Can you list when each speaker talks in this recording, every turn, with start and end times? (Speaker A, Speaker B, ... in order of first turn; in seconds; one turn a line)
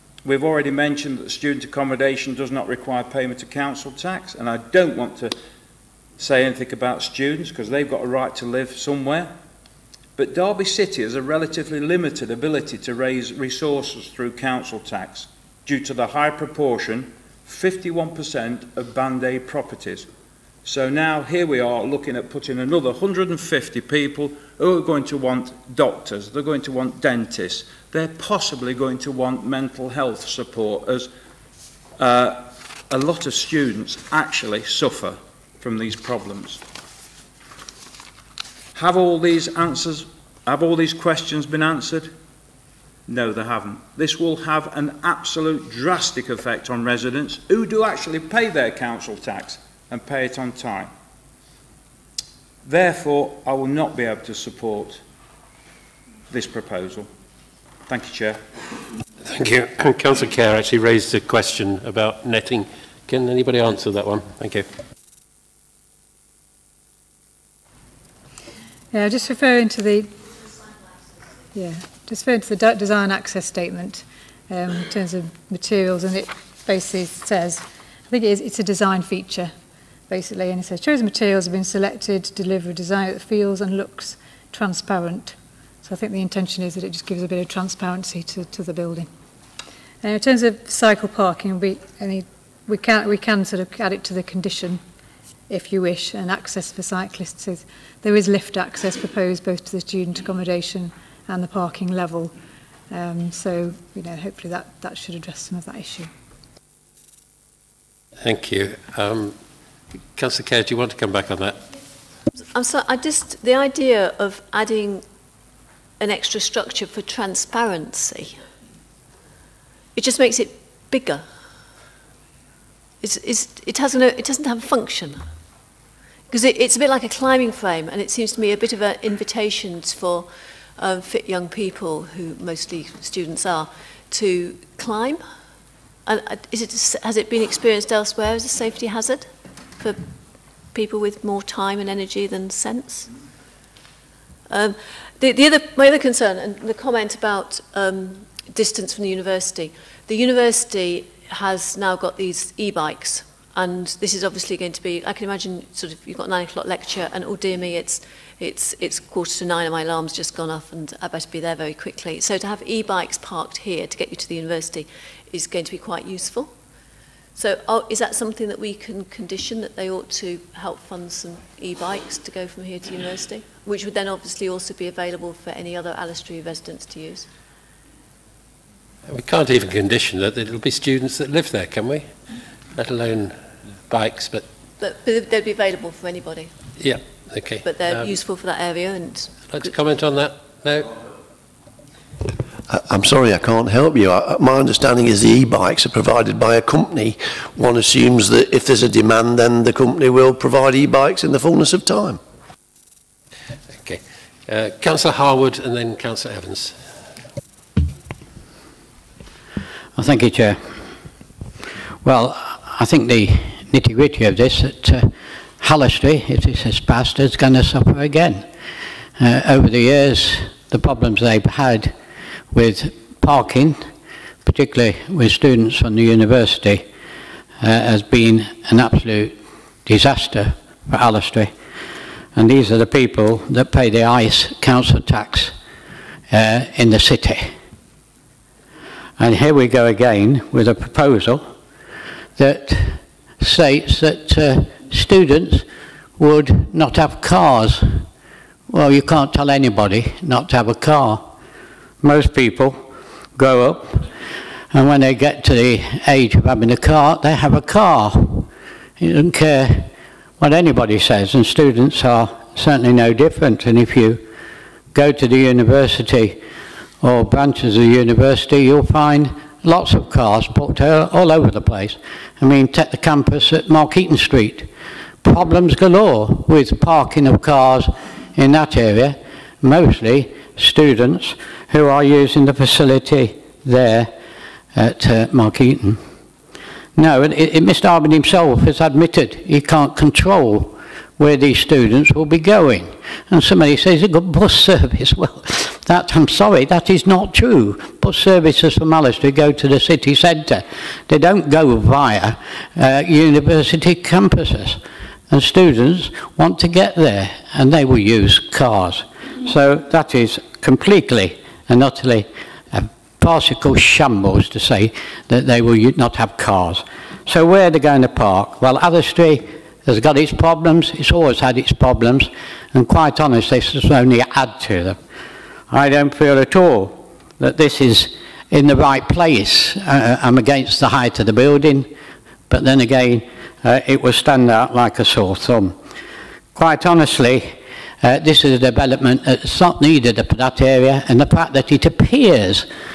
Speaker A: 0.2-5.4
Speaker A: 6.2-9.3
Speaker A: 10.2-20.1
Speaker A: 20.6-31.1
Speaker A: 32.0-36.6
Speaker A: 38.7-42.1
Speaker A: 43.1-50.9
Speaker A: 52.6-55.0
Speaker A: 56.3-57.1
Speaker A: 57.9-58.4
Speaker B: 59.2-64.7
Speaker C: 68.9-70.2
Speaker C: 71.5-79.5
Speaker C: 80.1-89.1
Speaker C: 90.0-94.8
Speaker C: 95.5-102.3
Speaker C: 102.9-106.1
Speaker B: 108.2-109.3
Speaker B: 110.1-111.6
Speaker D: 112.5-115.0
Speaker D: 116.0-118.4
Speaker D: 119.9-121.2
Speaker D: 123.0-125.2
Speaker D: 126.3-135.2
Speaker D: 136.1-140.0
Speaker D: 140.7-143.1
Speaker D: 144.5-166.5
Speaker D: 167.3-177.3
Speaker B: 179.1-182.1
Speaker B: 182.7-184.4
Speaker D: 184.8-186.5
Speaker B: 186.8-188.1
Speaker D: 187.6-189.7
Speaker B: 189.5-190.9
Speaker E: 192.7-202.2
Speaker B: 203.8-206.8
Speaker F: 209.9-210.7
Speaker F: 212.0-218.5
Speaker F: 219.2-221.9
Speaker F: 222.5-223.9
Speaker F: 224.4-226.9
Speaker F: 227.6-231.5
Speaker F: 232.3-235.5
Speaker F: 236.3-237.6
Speaker F: 239.2-241.6
Speaker F: 242.3-248.1
Speaker F: 248.7-251.3
Speaker F: 252.0-254.1
Speaker F: 254.7-264.2
Speaker F: 264.9-266.4
Speaker F: 267.0-274.7
Speaker F: 275.2-284.1
Speaker F: 284.7-286.0
Speaker F: 286.9-325.0
Speaker F: 325.7-331.9
Speaker F: 332.5-335.8
Speaker F: 336.5-342.7